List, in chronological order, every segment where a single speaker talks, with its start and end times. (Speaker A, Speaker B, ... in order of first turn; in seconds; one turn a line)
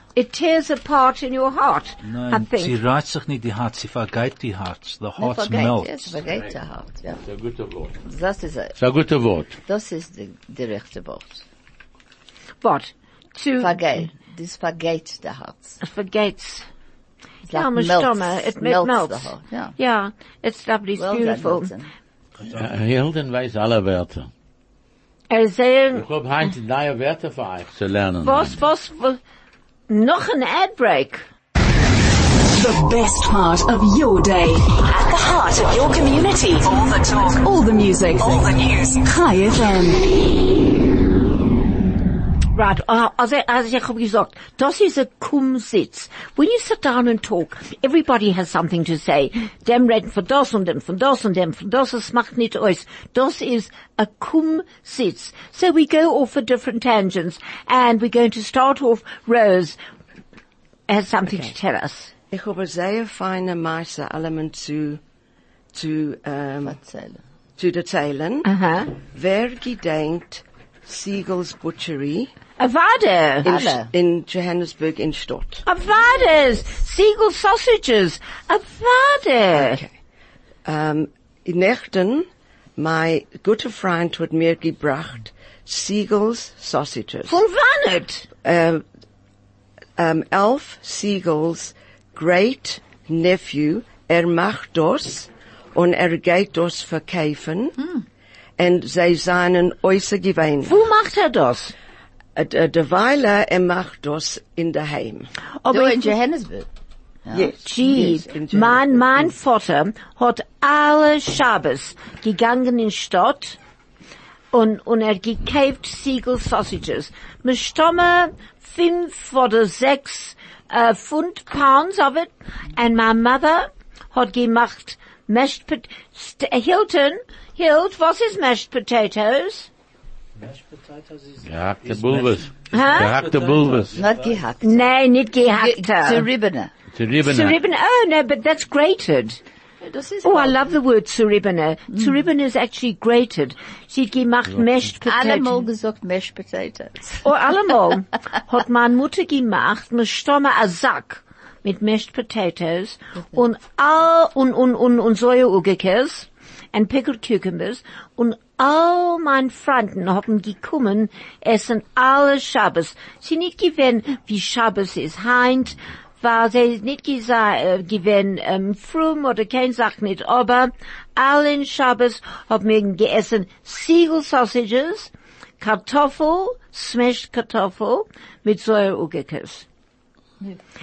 Speaker A: 0.1-2.8
Speaker B: 2.0-6.2
Speaker C: 5.2-7.2
Speaker D: 6.3-6.5
Speaker D: 7.2-8.0
Speaker C: 8.1-8.8
Speaker D: 8.8-9.6
Speaker C: 9.7-11.4
Speaker A: 12.6-13.8
Speaker C: 13.6-15.8
Speaker A: 15.8-16.7
Speaker C: 17.5-19.7
Speaker A: 17.5-21.7
Speaker C: 21.0-21.9
Speaker D: 22.5-24.3
Speaker A: 25.3-26.0
Speaker D: 25.9-28.6
Speaker A: 28.2-29.2
Speaker A: 29.9-31.2
Speaker E: 32.5-40.0
Speaker A: 42.5-59.8
Speaker A: 60.9-62.1
Speaker F: 62.3-65.0
Speaker F: 65.7-66.8
Speaker C: 66.7-67.2
Speaker F: 67.6-68.5
Speaker A: 68.5-68.9
Speaker F: 69.1-72.3
Speaker A: 72.6-73.5
Speaker F: 73.4-75.7
Speaker C: 73.5-73.9
Speaker A: 75.7-79.8
Speaker F: 79.5-79.9
Speaker F: 80.7-87.4
Speaker A: 87.3-88.3
Speaker F: 88.4-88.8
Speaker F: 90.0-97.8
Speaker F: 98.6-100.8
Speaker A: 100.7-101.7
Speaker F: 102.4-105.3
Speaker A: 105.6-106.2
Speaker C: 105.7-106.7
Speaker C: 107.2-107.5
Speaker F: 107.3-109.3
Speaker A: 107.6-113.6
Speaker A: 114.5-129.7
Speaker B: 130.4-134.4
Speaker D: 131.4-134.0
Speaker A: 132.7-133.1
Speaker C: 133.9-134.9
Speaker A: 134.6-136.3
Speaker C: 135.5-136.7
Speaker D: 136.9-137.6
Speaker A: 137.2-139.4
Speaker C: 139.8-140.7
Speaker A: 140.2-145.7
Speaker C: 145.0-147.2
Speaker A: 147.2-179.7